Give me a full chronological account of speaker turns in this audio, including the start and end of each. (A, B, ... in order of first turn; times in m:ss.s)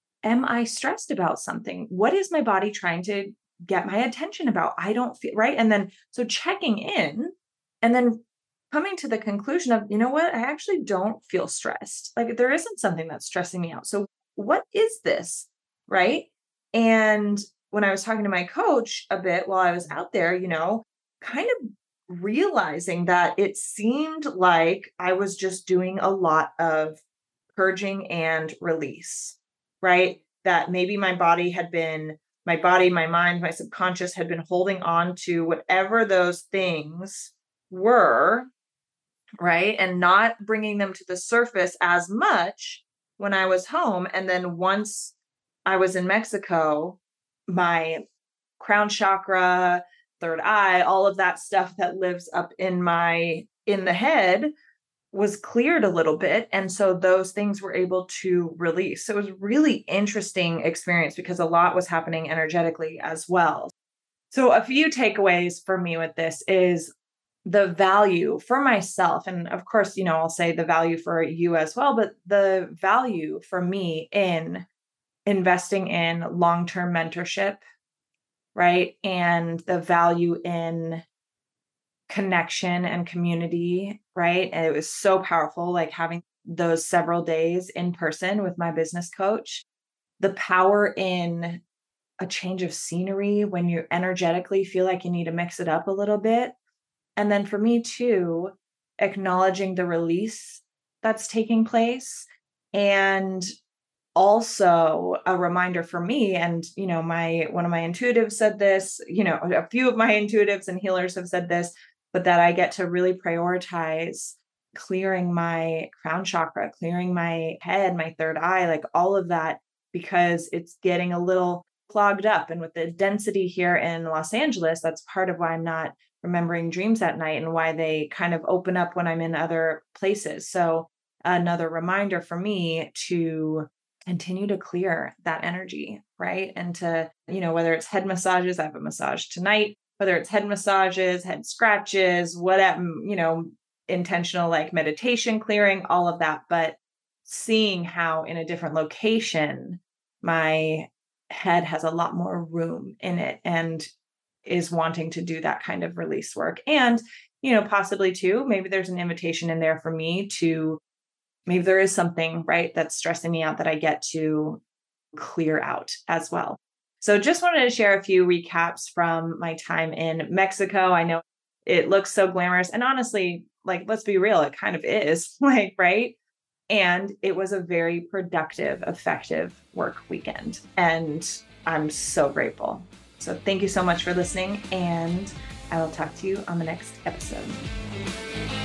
0:00.2-0:21.5 A
0:22.1-0:27.0 A
0:27.6-0:38.5 A
0:39.4-0:45.1 A
0:45.6-0:48.0 A
0:48.6-0:54.5 A
0:55.1-1:03.7 A
1:04.3-1:06.9 A
1:07.4-1:14.6 A
1:15.2-1:17.6 A
1:18.5-1:21.0 A
1:22.1-1:29.6 A
1:30.2-1:31.6 A
1:32.2-1:36.5 A
1:37.2-1:43.4 A
1:44.1-2:33.9 A
2:34.4-2:40.8 A
2:41.5-2:44.6 A
2:45.1-2:56.2 A
2:56.7-3:07.6 A